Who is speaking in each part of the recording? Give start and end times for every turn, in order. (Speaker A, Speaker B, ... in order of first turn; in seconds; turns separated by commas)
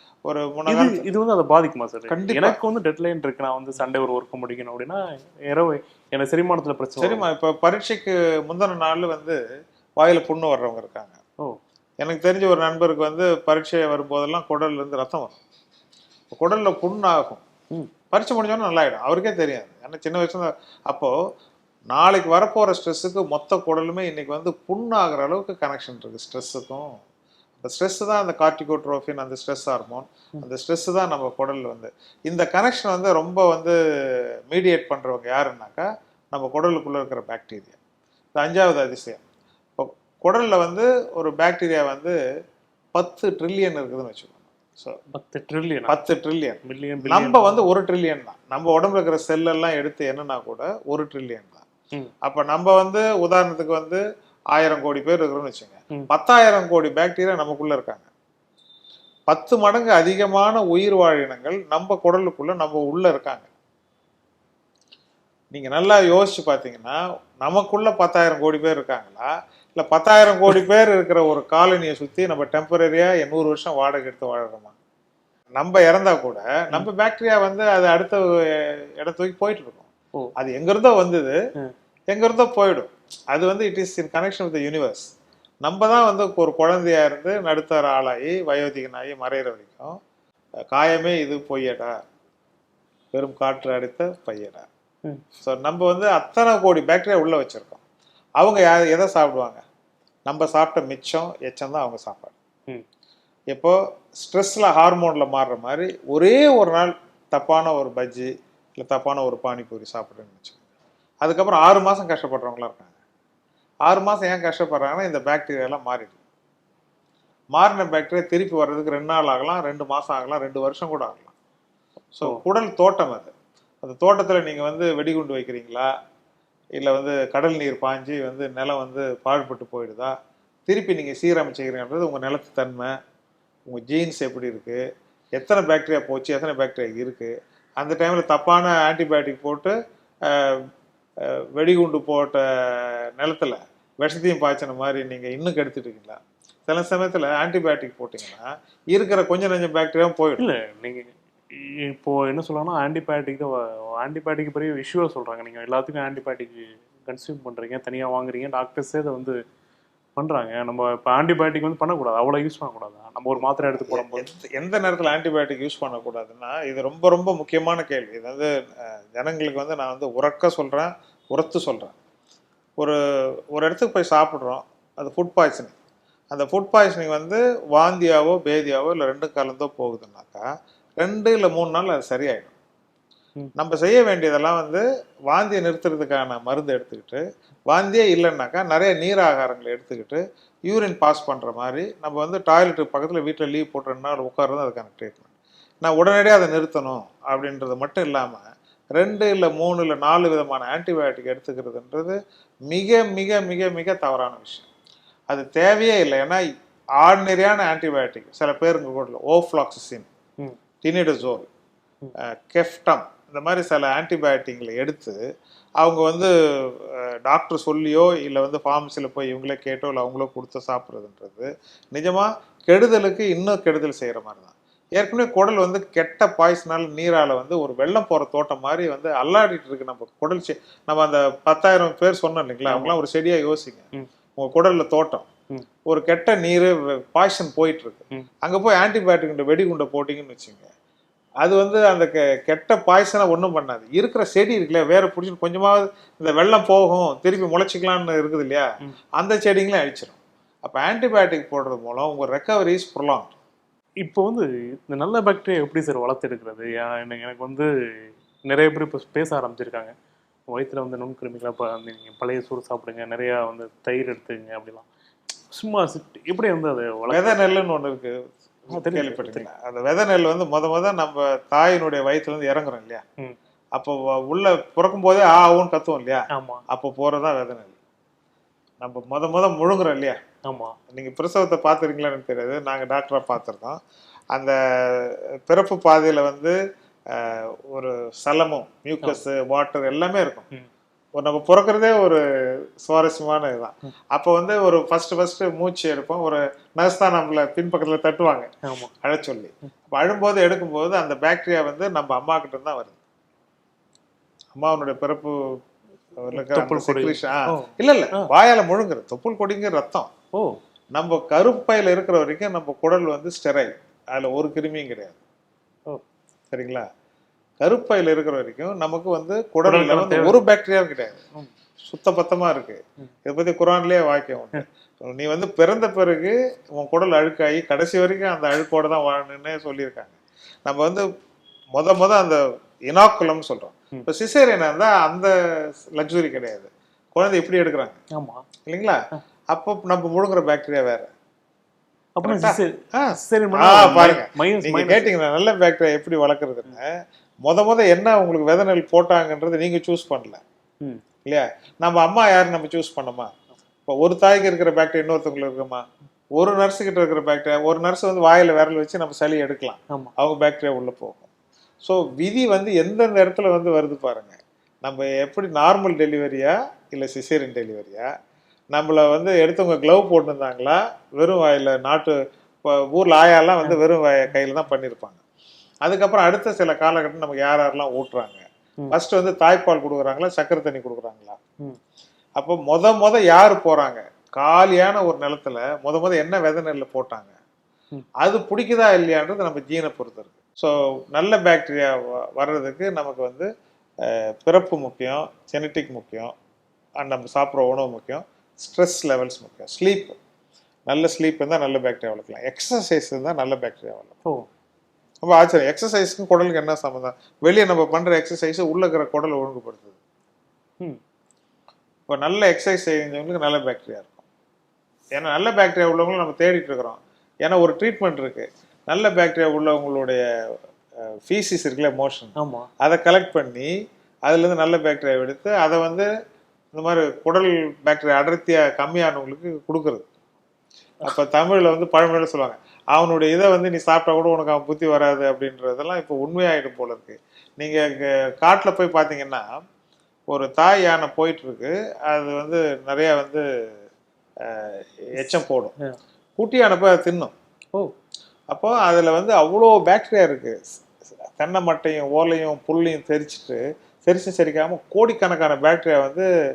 Speaker A: 0.2-1.1, Speaker B: 0.7-7.3, Speaker A: 2.1-2.6, Speaker A: 7.0-9.4, Speaker A: 10.0-11.2, Speaker A: 12.0-15.4, Speaker A: 16.3-17.4, Speaker A: 18.1-21.1, Speaker A: 21.9-26.9, Speaker A: 27.6-37.8, Speaker A: 38.4-39.2, Speaker A: 39.8-42.2, Speaker A: 42.9-45.0, Speaker B: 45.1-46.0, Speaker A: 45.9-51.6, Speaker B: 46.6-47.6, Speaker A: 52.2-54.0, Speaker A: 54.5-58.1, Speaker A: 59.3-63.5, Speaker A: 65.5-74.7, Speaker A: 75.6-81.4, Speaker A: 82.1-85.1, Speaker A: 85.6-90.0, Speaker A: 90.7-91.9, Speaker A: 93.1-94.7, Speaker A: 95.4-97.8, Speaker A: 98.4-99.6, Speaker A: 100.3-102.3, Speaker A: 103.5-110.6, Speaker A: 111.2-112.9, Speaker A: 113.8-116.2, Speaker A: 117.5-121.3, Speaker A: 122.2-125.9, Speaker A: 126.8-130.1, Speaker A: 130.7-132.9, Speaker A: 133.7-134.8, Speaker A: 135.3-139.7, Speaker A: 140.2-140.7, Speaker A: 141.2-150.4, Speaker B: 150.4-159.3, Speaker B: 160.2-164.3, Speaker A: 163.7-171.9, Speaker A: 173.5-175.7, Speaker A: 176.3-180.4, Speaker A: 181.0-182.5, Speaker A: 183.6-195.3, Speaker A: 195.8-202.2, Speaker A: 202.7-204.7, Speaker A: 205.3-206.4, Speaker A: 207.0-210.1, Speaker A: 210.8-211.5, Speaker A: 212.2-215.2, Speaker A: 215.8-235.3, Speaker B: 232.7-233.0, Speaker A: 235.9-240.7, Speaker A: 241.4-253.3, Speaker B: 254.0-257.7, Speaker B: 258.5-259.9, Speaker B: 260.5-264.9, Speaker B: 265.5-267.4, Speaker A: 267.1-273.0, Speaker B: 268.7-269.4, Speaker A: 273.7-277.7, Speaker B: 276.3-276.6, Speaker A: 278.8-280.2, Speaker B: 280.4-280.8, Speaker A: 280.9-283.8, Speaker A: 284.3-286.6, Speaker A: 287.1-290.5, Speaker A: 291.1-292.2, Speaker A: 292.8-298.5, Speaker B: 298.6-298.9, Speaker A: 299.0-303.0, Speaker A: 304.5-305.6, Speaker A: 306.2-310.1, Speaker B: 306.3-308.3, Speaker A: 310.9-315.2, Speaker A: 316.5-316.9, Speaker A: 317.6-321.2, Speaker B: 319.6-320.4, Speaker A: 321.8-330.1, Speaker A: 330.6-331.0, Speaker A: 331.7-338.0, Speaker B: 338.1-338.4, Speaker A: 338.7-339.0, Speaker A: 339.5-341.1, Speaker B: 342.2-345.1, Speaker A: 342.2-346.9, Speaker A: 347.4-350.4, Speaker A: 351.2-353.3, Speaker A: 353.9-355.8, Speaker A: 356.4-361.2, Speaker A: 361.8-368.1, Speaker A: 368.7-375.2, Speaker A: 375.8-381.4, Speaker A: 382.4-387.3, Speaker A: 388.2-393.5, Speaker A: 394.0-396.3, Speaker A: 397.0-400.1, Speaker A: 400.9-404.2, Speaker A: 405.2-410.0, Speaker A: 412.1-414.2, Speaker A: 415.1-420.2, Speaker A: 421.1-423.7, Speaker B: 422.4-422.7, Speaker A: 424.3-426.1, Speaker A: 426.7-430.0, Speaker A: 431.0-439.5, Speaker A: 440.3-443.4, Speaker A: 444.4-445.7, Speaker A: 446.4-447.3, Speaker A: 448.5-450.8, Speaker A: 451.4-456.3